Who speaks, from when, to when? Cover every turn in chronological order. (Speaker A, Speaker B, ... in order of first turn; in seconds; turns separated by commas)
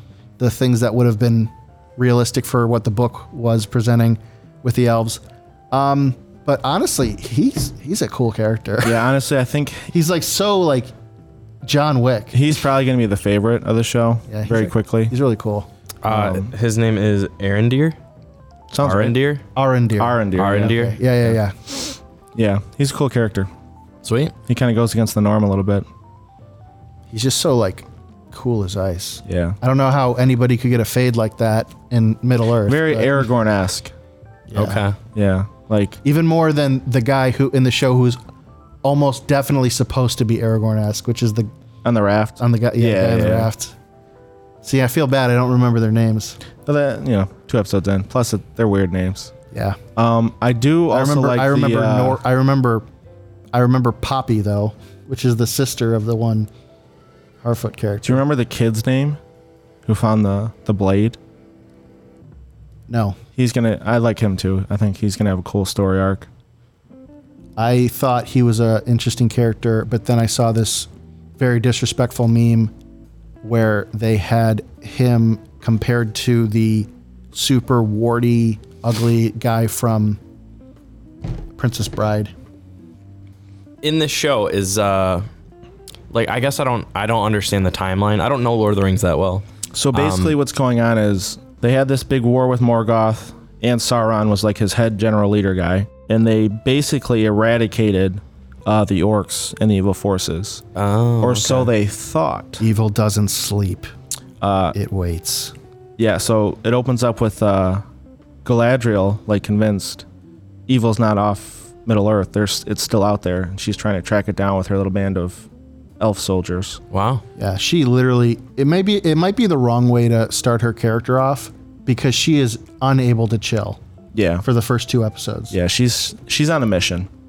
Speaker A: 0.4-9.0, Speaker B: 8.8-9.9, Speaker A: 9.9-10.9, Speaker A: 11.6-12.5, Speaker B: 12.3-15.1, Speaker A: 14.3-15.7, Speaker C: 16.0-18.0, Speaker B: 16.1-16.5, Speaker B: 18.7-19.1, Speaker C: 18.8-19.4, Speaker A: 19.6-21.8, Speaker B: 20.0-21.4, Speaker C: 20.4-21.0, Speaker B: 22.4-23.5, Speaker C: 24.0-24.3, Speaker B: 24.5-25.9, Speaker A: 27.1-33.3, Speaker B: 29.3-29.6, Speaker B: 32.7-33.9, Speaker A: 34.5-34.8, Speaker C: 34.5-35.0, Speaker B: 34.6-36.0, Speaker A: 36.0-38.2, Speaker A: 38.8-41.5, Speaker B: 41.8-43.5, Speaker A: 42.4-43.8, Speaker A: 44.6-46.4, Speaker B: 46.7-49.3, Speaker A: 49.5-49.8, Speaker B: 50.0-52.2, Speaker A: 50.9-52.9, Speaker A: 53.5-56.5, Speaker A: 57.4-58.2, Speaker B: 58.0-59.2, Speaker B: 59.9-61.2, Speaker A: 62.9-63.2, Speaker B: 63.4-66.3, Speaker A: 67.6-72.7, Speaker A: 73.4-80.2, Speaker A: 81.6-82.3, Speaker C: 83.8-85.3, Speaker C: 86.1-90.4, Speaker B: 89.7-100.6, Speaker C: 100.8-101.7, Speaker B: 101.2-102.6, Speaker A: 102.6-103.9, Speaker B: 104.4-104.8, Speaker A: 104.7-105.5, Speaker B: 106.0-107.8, Speaker B: 108.5-110.0, Speaker B: 110.7-115.5, Speaker B: 116.0-116.8, Speaker C: 116.9-117.2, Speaker A: 117.4-123.8, Speaker B: 124.1-124.4, Speaker A: 124.4-125.5, Speaker B: 125.5-127.1